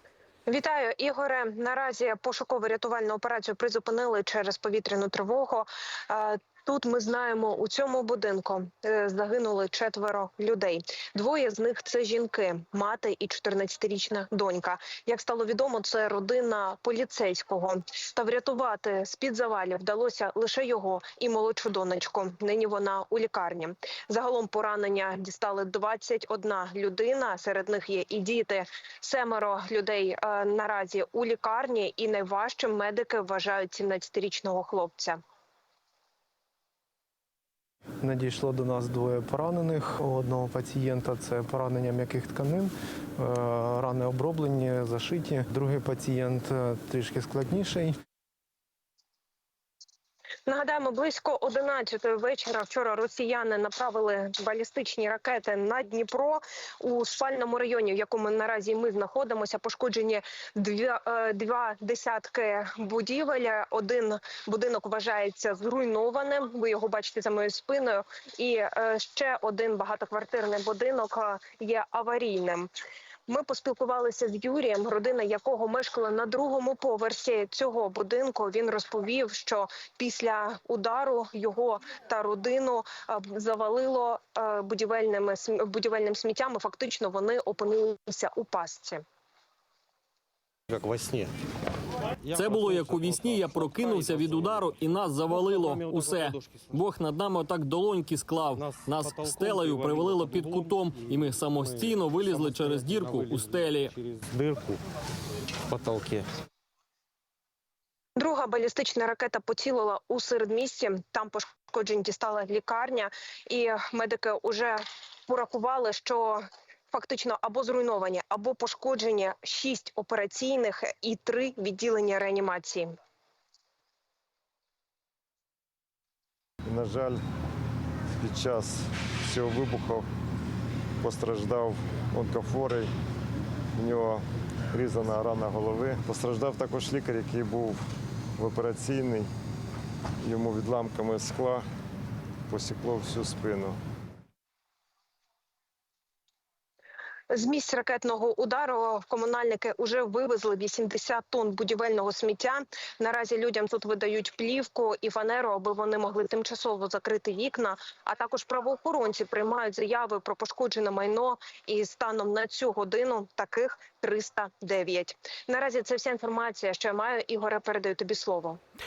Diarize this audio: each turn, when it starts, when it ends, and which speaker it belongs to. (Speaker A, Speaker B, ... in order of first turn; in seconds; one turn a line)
Speaker A: 0.5-35.2
Speaker B: 38.0-48.0
Speaker A: 50.5-72.7
Speaker A: 73.3-89.0
Speaker C: 90.7-91.3
Speaker D: 92.3-103.9
Speaker C: 94.0-94.6
Speaker C: 104.3-104.8
Speaker C: 105.7-106.2
Speaker A: 108.2-122.9
Speaker E: 126.7-127.2
Speaker E: 128.2-130.1
Speaker E: 131.0-132.9
Speaker E: 133.7-137.8
Speaker E: 138.4-139.3
Speaker E: 140.2-141.7
Speaker E: 142.5-143.8
Speaker A: 147.3-168.6